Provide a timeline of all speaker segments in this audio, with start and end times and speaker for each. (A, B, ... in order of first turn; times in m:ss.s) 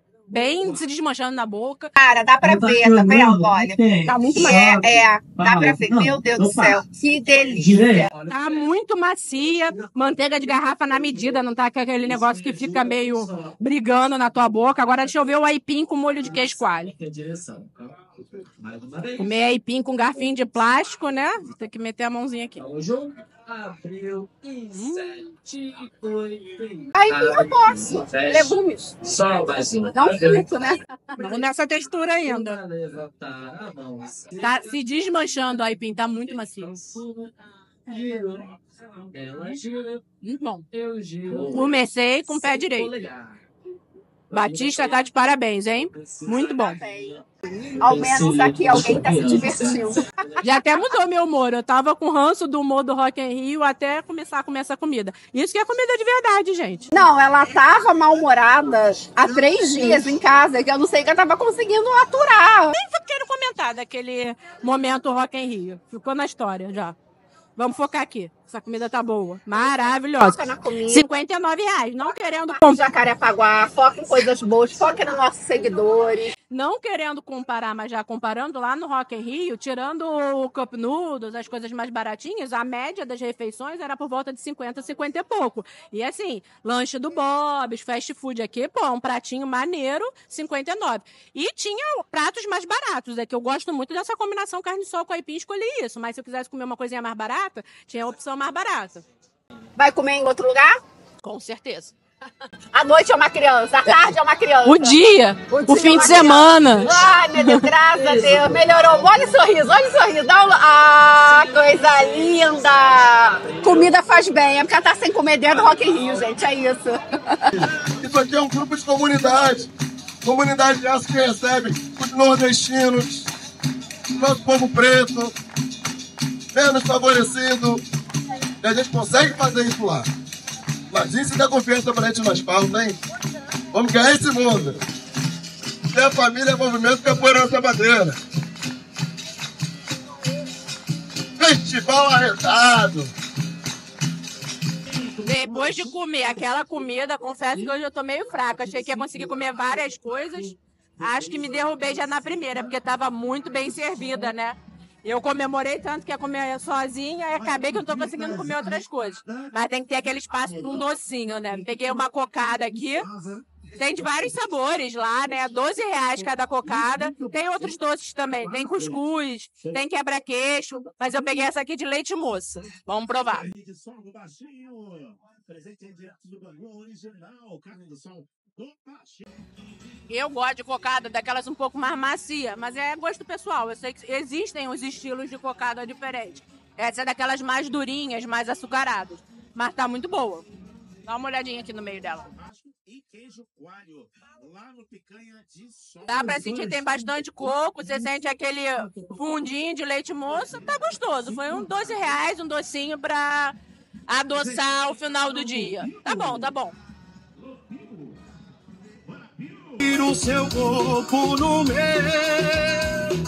0:00.3-0:01.9 A
0:02.0-0:03.8 B
0:02.4-0:06.8 C
0:04.0-0:04.7 A
0:04.3-0:08.1 B
0:07.5-0:08.7 C
0:08.3-0:16.9 A
0:12.1-0:13.5 C
0:16.2-0:19.3 C
0:19.2-0:22.6 A
0:22.6-0:30.6 C
0:24.7-0:25.2 A
0:26.9-0:29.0 B
0:29.9-0:31.3 B
0:31.2-0:32.6 A
0:32.2-0:34.7 C
0:34.4-0:36.8 A
0:36.4-0:37.3 C
0:37.9-0:40.0 C
0:40.2-0:40.6 A
0:40.7-0:41.8 C
0:41.5-0:42.9 A
0:42.3-0:43.4 C
0:44.3-0:45.0 C
0:44.3-0:46.8 A
0:45.9-0:50.4 C
0:46.5-0:47.2 B
0:47.8-0:50.0 B
0:50.4-0:56.9 A
0:56.9-1:02.8 B
1:02.7-1:06.9 A
1:07.6-1:12.8 A
1:09.5-1:11.1 B
1:12.0-1:16.3 B
1:16.5-1:39.0 A
1:39.8-1:40.8 B
1:41.2-1:41.9 A
1:42.7-1:45.0 B
1:44.6-1:47.7 A
1:45.5-1:57.6 B
1:48.0-1:48.6 C
1:58.0-1:59.7 D
2:00.2-2:03.3 D
2:04.1-2:05.3 D
2:06.5-2:07.8 D
2:08.6-2:10.1 D
2:10.9-2:13.0 D
2:13.7-2:14.8 D
2:15.9-2:18.2 D
2:21.4-2:23.1 D
2:25.0-2:25.7 E
2:25.2-2:43.1 A
2:37.4-2:39.5 E
2:40.3-2:40.8 E
2:42.8-2:44.4 E
2:43.8-2:53.4 A
2:46.6-2:47.7 E
2:48.4-2:49.0 E
2:53.1-2:59.3 E
3:00.1-3:10.4 A
3:11.0-3:12.3 A
3:12.3-3:16.9 E
3:16.0-3:23.5 A
3:18.8-3:19.2 E
3:20.4-3:21.9 E
3:24.1-3:26.8 A
3:24.5-3:26.5 E
3:27.4-3:28.2 E
3:28.9-3:29.8 E
3:29.8-3:33.0 F